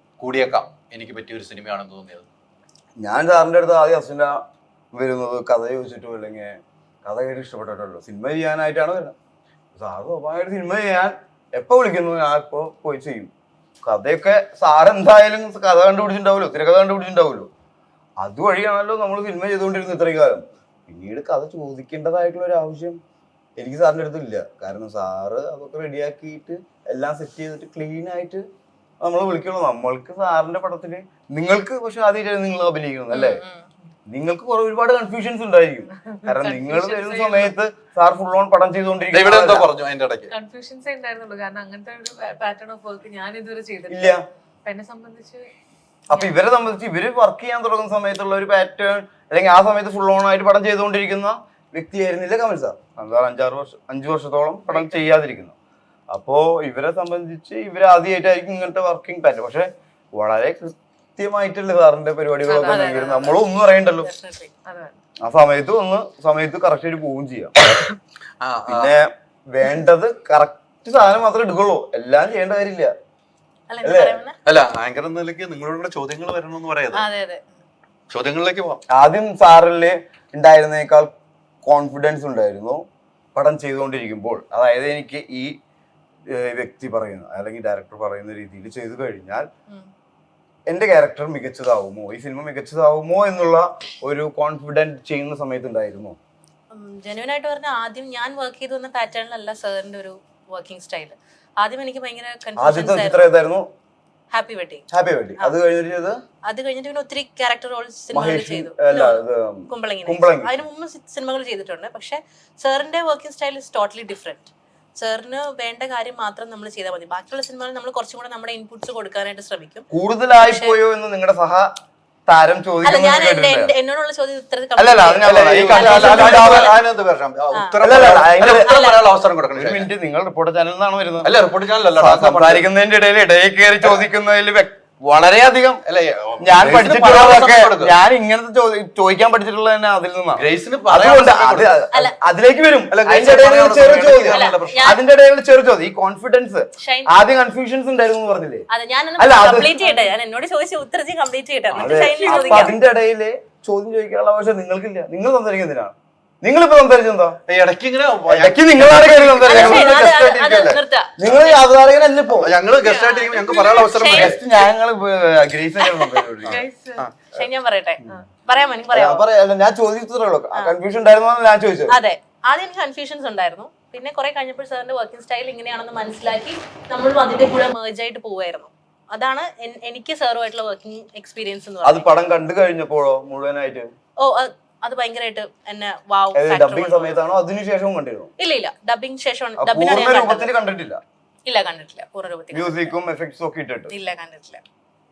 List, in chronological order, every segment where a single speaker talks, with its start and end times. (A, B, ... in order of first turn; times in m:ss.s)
0:00.2-0:02.2 A
0:03.0-0:04.4 B
0:04.9-0:09.1 B
0:09.8-0:13.3 B
0:13.8-0:17.5 B
0:18.2-0:23.0 B
0:23.6-0:28.4 B
0:29.0-0:33.4 B
0:33.1-0:33.7 C
0:34.1-0:39.7 B
0:36.1-0:37.5 D
0:39.1-0:40.3 A
0:40.3-0:45.5 D
0:43.9-0:44.2 B
0:46.1-0:55.5 B
0:56.1-1:04.1 B
1:02.4-1:03.4 C
1:04.0-1:04.5 C
1:04.6-1:05.0 D
1:05.2-1:07.5 B
1:08.4-1:08.9 A
1:08.7-1:12.9 B
1:13.7-1:14.4 C
1:13.8-1:14.2 B
1:14.4-1:17.0 A
1:16.9-1:17.4 C
1:18.1-1:18.8 A
1:18.9-1:21.1 B
1:21.6-1:22.8 B
1:23.3-1:25.5 B
1:26.3-1:29.5 B
1:30.7-1:36.2 B
1:36.7-1:43.3 C
1:42.6-1:43.7 B
1:44.3-1:44.8 C
1:44.9-1:46.2 B
1:46.4-1:59.9 C
1:48.1-1:50.6 B
1:59.9-2:01.7 B
2:00.4-2:00.8 C
2:02.3-2:03.7 B
2:02.8-2:06.8 C
2:04.8-2:06.8 B
2:05.2-2:09.9 A
2:07.5-2:07.8 C
2:07.8-2:08.7 B
2:08.4-2:09.0 C
2:09.5-2:11.3 B
2:11.2-2:12.6 A
2:11.9-2:15.8 B
2:15.8-2:18.0 A
2:16.4-2:28.7 B
2:20.3-2:21.8 A
2:22.9-2:25.0 A
2:24.2-2:25.0 C
2:26.8-2:27.1 C
2:28.7-2:32.8 C
2:29.2-2:30.0 B
2:31.7-2:37.4 B
2:32.0-2:32.5 D
2:32.2-2:32.6 A
2:37.5-2:40.0 A
2:38.3-2:42.6 B
2:39.4-2:41.6 C
2:42.3-2:44.4 A
2:42.8-2:44.5 C
2:44.1-2:46.6 B
2:45.8-2:46.2 C
2:46.4-2:47.1 A
2:46.5-2:47.0 D
2:47.3-2:49.2 C
2:48.9-2:52.0 B
2:51.9-3:02.1 C
3:01.8-3:03.9 B
3:04.2-3:07.2 C
3:06.3-3:08.3 B
3:08.4-3:10.5 C
3:09.6-3:11.0 B
3:11.4-3:12.9 C
3:12.5-3:13.9 B
3:13.9-3:14.6 C